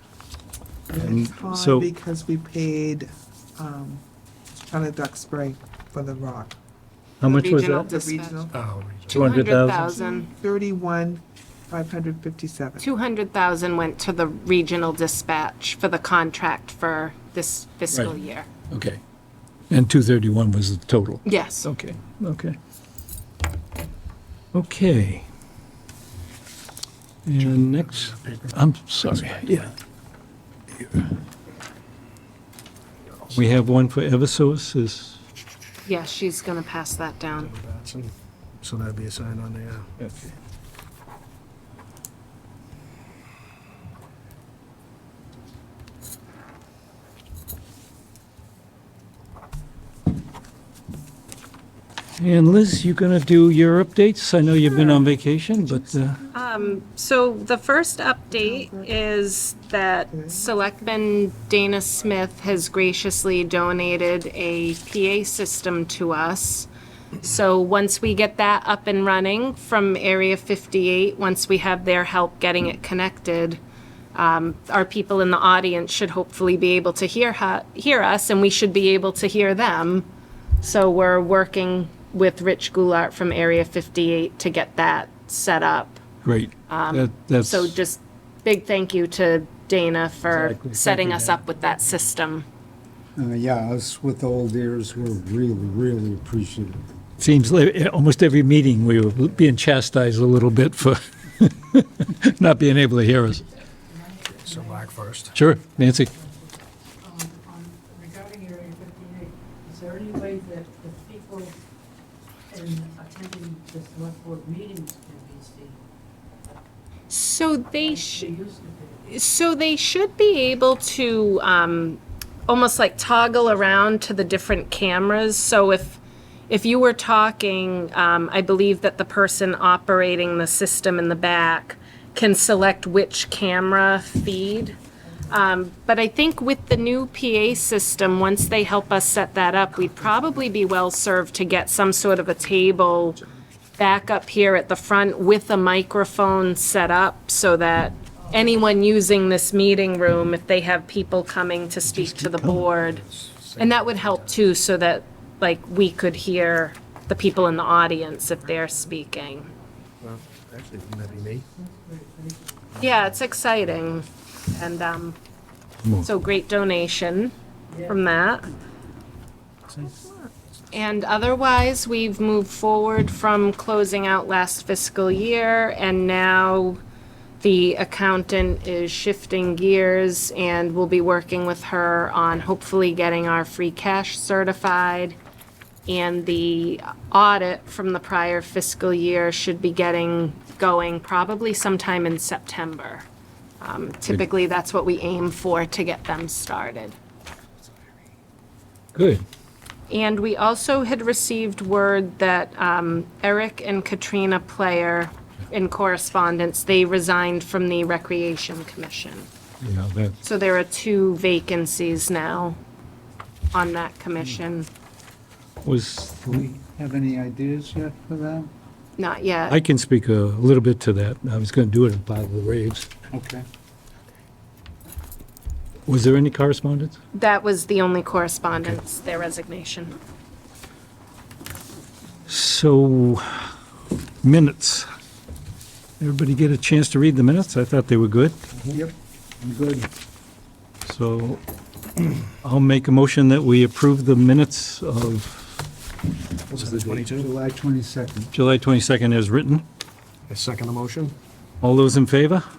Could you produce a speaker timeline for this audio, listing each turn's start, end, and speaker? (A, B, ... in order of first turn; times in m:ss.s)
0:00.9-0:04.0 A
0:00.9-0:01.9 B
0:04.7-0:06.6 A
0:07.2-0:07.9 B
0:07.2-0:08.5 C
0:07.2-0:08.6 A
0:08.5-0:09.4 D
0:09.1-0:09.9 B
0:09.1-0:10.3 C
0:09.6-0:12.8 A
0:12.8-0:18.5 C
0:18.7-0:19.0 B
0:19.7-0:22.6 B
0:21.2-0:21.7 C
0:24.5-0:25.3 B
0:27.2-0:29.7 B
0:27.4-0:29.7 D
0:33.1-0:33.4 D
0:33.3-0:35.2 B
0:35.8-0:37.5 C
0:37.3-0:40.3 D
0:52.2-0:56.2 B
0:54.8-0:56.4 A
0:56.3-1:06.7 C
0:58.3-0:59.0 A
1:00.1-1:00.6 A
1:07.2-1:13.6 C
1:14.2-1:20.1 C
1:20.6-1:26.0 C
1:26.2-1:27.8 B
1:26.7-1:32.4 C
1:30.3-1:31.4 B
1:33.2-1:36.8 E
1:37.2-1:43.5 B
1:44.4-1:45.4 D
1:45.3-1:46.1 B
1:47.6-1:51.5 F
1:52.5-1:55.7 F
1:57.1-1:58.3 C
1:58.3-1:58.6 F
1:59.0-2:23.2 C
2:23.8-2:33.0 C
2:32.6-2:34.3 D
2:33.6-2:39.5 C
2:40.0-2:41.5 D
2:41.6-2:42.2 F
2:42.8-2:45.2 C
2:46.0-2:48.5 C
2:49.9-2:50.1 A
2:50.7-2:56.8 C
2:57.4-3:05.2 C
3:05.9-3:13.1 C
3:13.6-3:17.0 C
3:18.9-3:19.2 B
3:19.9-3:29.3 C
3:29.6-3:30.2 B
3:30.2-3:32.6 C
3:33.5-3:34.7 C
3:35.6-3:36.4 B
3:36.3-3:38.5 E
3:39.0-3:39.6 C
3:39.5-3:42.9 B
3:43.1-3:43.4 E
3:45.8-3:47.0 B
3:47.1-3:49.9 C
3:52.3-3:53.5 B
3:54.2-3:54.9 B
3:56.0-3:58.4 B
3:58.7-3:59.9 E
4:00.8-4:01.4 B
4:02.4-4:05.6 B
4:06.5-4:07.3 D
4:06.6-4:06.8 B
4:06.6-4:08.3 E
4:08.3-4:09.6 B
4:10.3-4:11.2 D
4:11.6-4:12.4 B